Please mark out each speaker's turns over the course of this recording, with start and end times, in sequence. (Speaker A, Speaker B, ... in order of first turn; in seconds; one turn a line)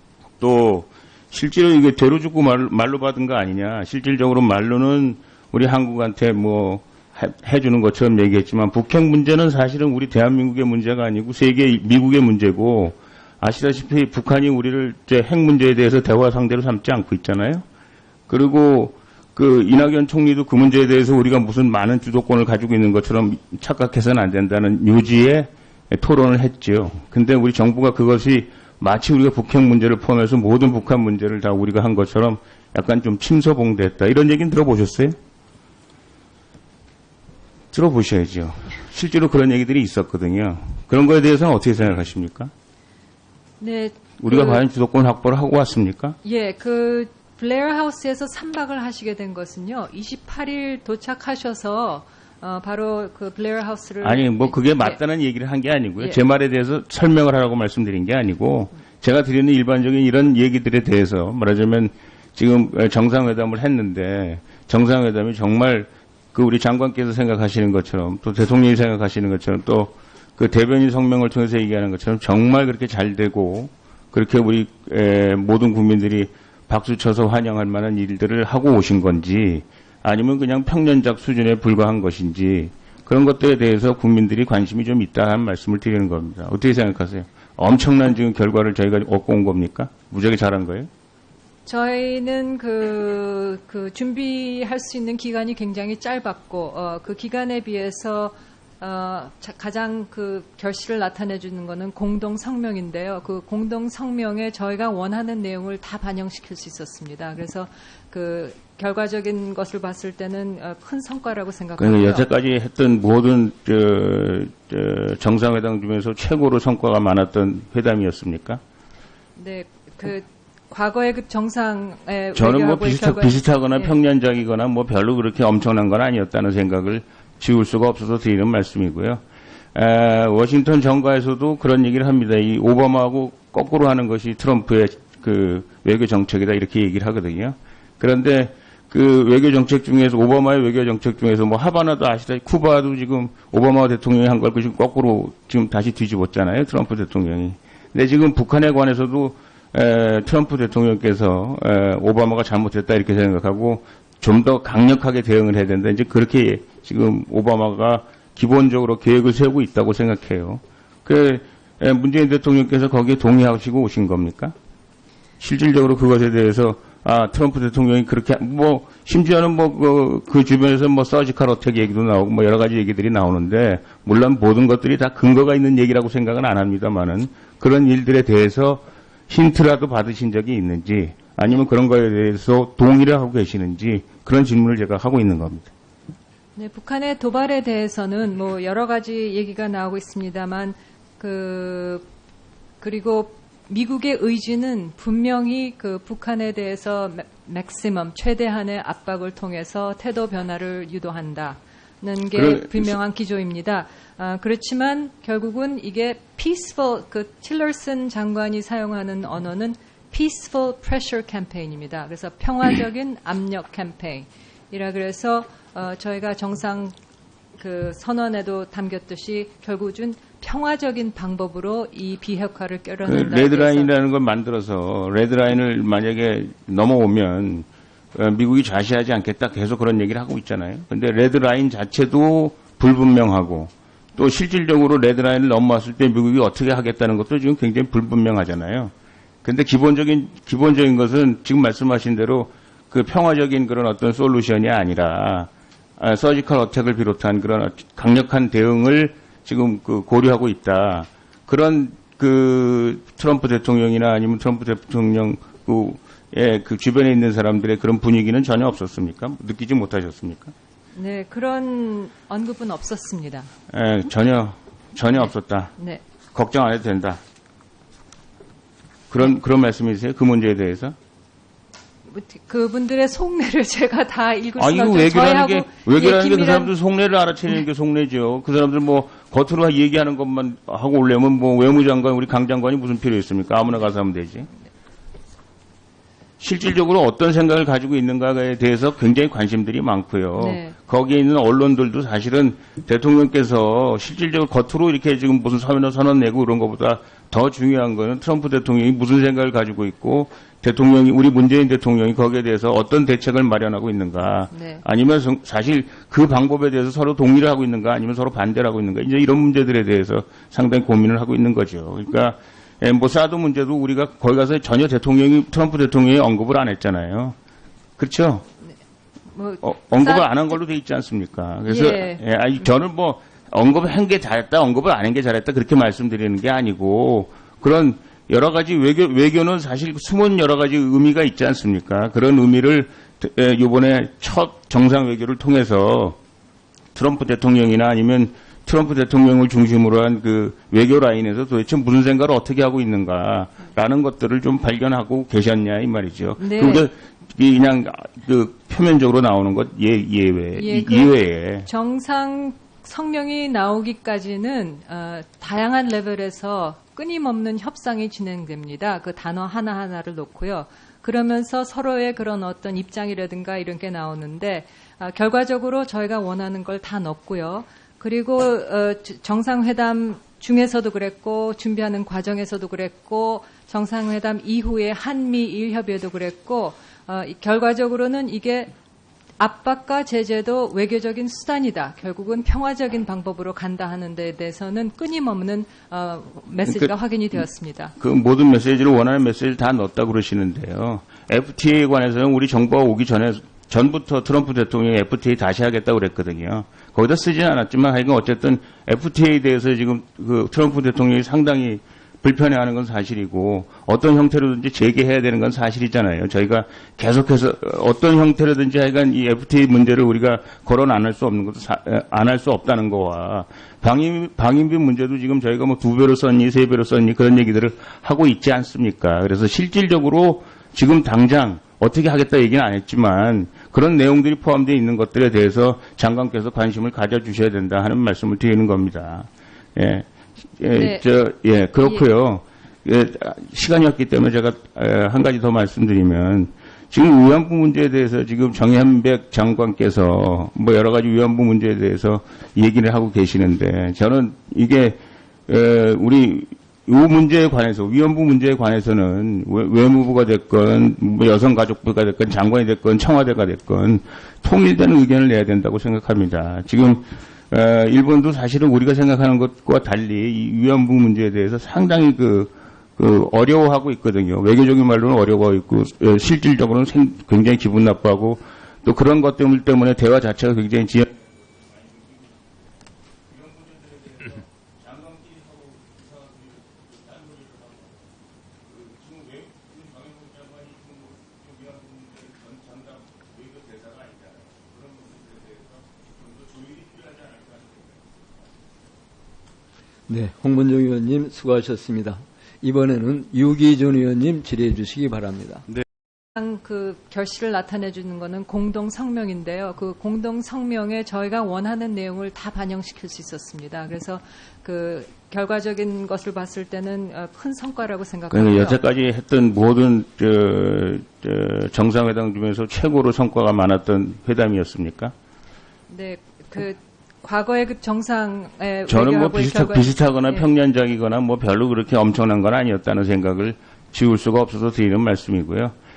Speaker A: 0.4-17.6
Speaker A: 18.3-35.1
Speaker A: 37.7-42.5
Speaker B: 43.6-44.6
Speaker A: 44.2-46.1
Speaker B: 46.2-55.0
Speaker A: 54.0-90.9
Speaker B: 91.7-112.2
Speaker A: 111.8-118.6
Speaker B: 119.3-124.0
Speaker A: 122.3-129.2
Speaker A: 129.7-164.5
Speaker A: 165.4-185.7
Speaker B: 186.6-192.1
Speaker B: 192.8-216.9
Speaker A: 202.3-203.0
Speaker B: 217.6-223.9
Speaker A: 223.0-238.9
Speaker A: 239.4-260.5
Speaker B: 260.9-263.5
Speaker A: 263.7-265.7
Speaker A: 266.3-267.2
Speaker A: 269.1-270.9
Speaker B: 272.1-276.7
Speaker A: 274.6-284.5
Speaker A: 286.4-317.4
Speaker B: 290.4-290.7
Speaker B: 304.5-304.8
Speaker A: 318.0-318.4
Speaker B: 319.3-320.5
Speaker A: 319.6-336.2
Speaker B: 321.6-322.2
Speaker A: 336.9-351.7
Speaker B: 346.4-346.9
Speaker B: 350.5-378.7
Speaker B: 379.4-387.9
Speaker A: 386.6-387.4
Speaker A: 388.0-472.6
Speaker B: 430.7-431.0
Speaker B: 431.8-432.1
Speaker A: 473.3-478.0
Speaker A: 478.6-488.0
Speaker C: 490.1-495.6
Speaker B: 496.4-508.8
Speaker A: 508.3-515.1
Speaker B: 515.9-520.5
Speaker A: 518.9-525.7